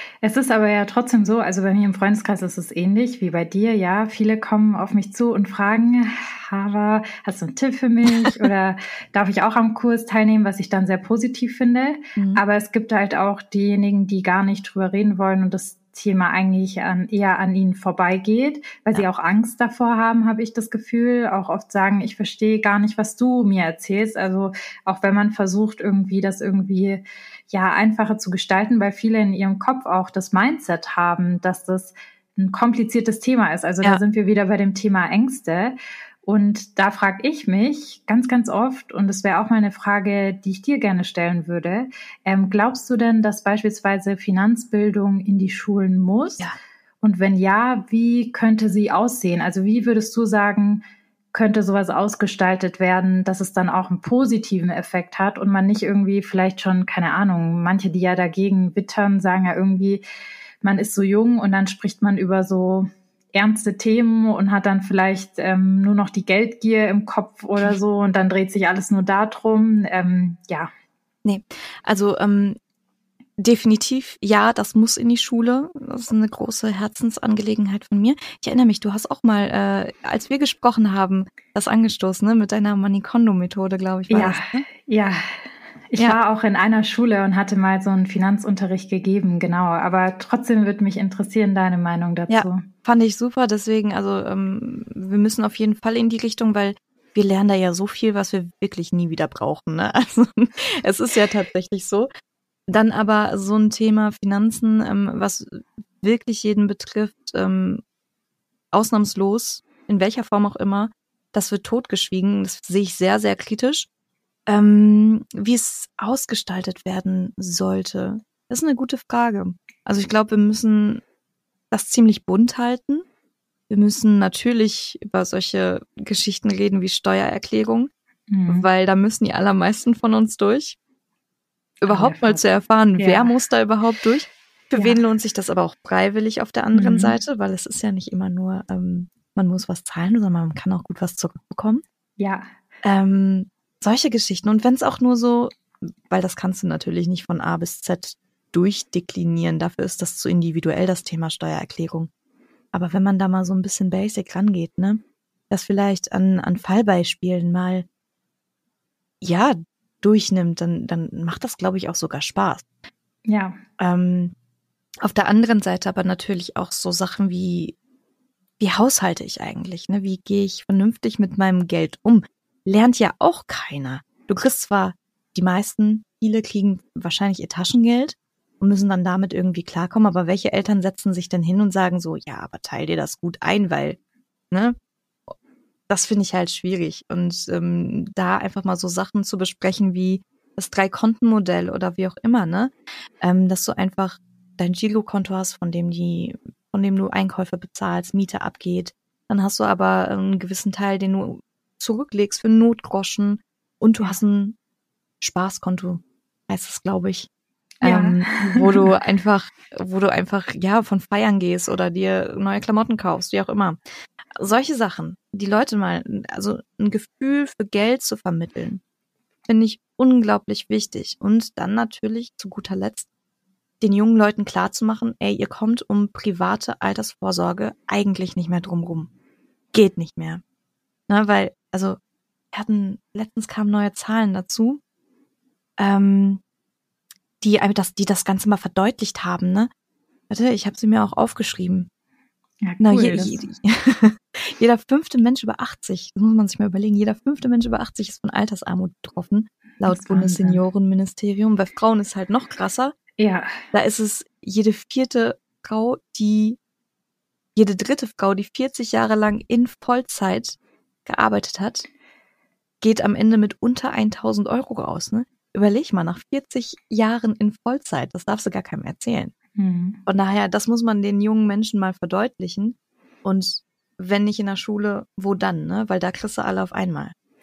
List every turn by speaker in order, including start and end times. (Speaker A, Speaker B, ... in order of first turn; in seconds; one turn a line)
Speaker A: 0.2-46.5
Speaker B: 12.2-12.4
Speaker A: 47.0-60.0
Speaker A: 60.6-70.7
Speaker B: 71.2-72.6
Speaker B: 73.4-84.7
Speaker A: 84.1-85.2
Speaker A: 85.9-92.6
Speaker B: 92.3-102.1
Speaker B: 102.7-107.8
Speaker B: 108.7-113.9
Speaker B: 114.5-121.0
Speaker B: 121.7-123.0
Speaker B: 123.7-127.9
Speaker A: 128.3-128.7
Speaker B: 128.5-130.8
Speaker B: 131.8-141.8
Speaker A: 131.9-132.4
Speaker A: 132.9-133.4
Speaker A: 134.8-135.0
Speaker A: 136.7-137.2
Speaker A: 142.2-142.5
Speaker B: 142.8-152.1
Speaker B: 152.7-157.9
Speaker B: 159.2-162.7
Speaker A: 163.3-163.6
Speaker B: 163.8-164.3
Speaker B: 165.0-167.8
Speaker B: 168.6-184.0
Speaker B: 184.5-184.8
Speaker B: 185.9-204.6
Speaker B: 205.2-207.3
Speaker B: 207.8-213.8
Speaker A: 207.8-208.9
Speaker B: 214.4-218.8
Speaker B: 219.5-223.1
Speaker B: 223.8-229.1
Speaker B: 229.7-230.4
Speaker B: 231.1-232.0
Speaker B: 232.5-234.8
Speaker B: 235.8-236.4
Speaker B: 237.4-239.7
Speaker B: 240.3-241.9
Speaker A: 242.6-243.4
Speaker B: 242.8-253.0
Speaker A: 249.9-250.6
Speaker A: 253.2-253.5
Speaker B: 253.7-256.6
Speaker B: 257.6-261.9
Speaker B: 262.8-269.3
Speaker A: 269.6-270.0
Speaker B: 270.1-277.1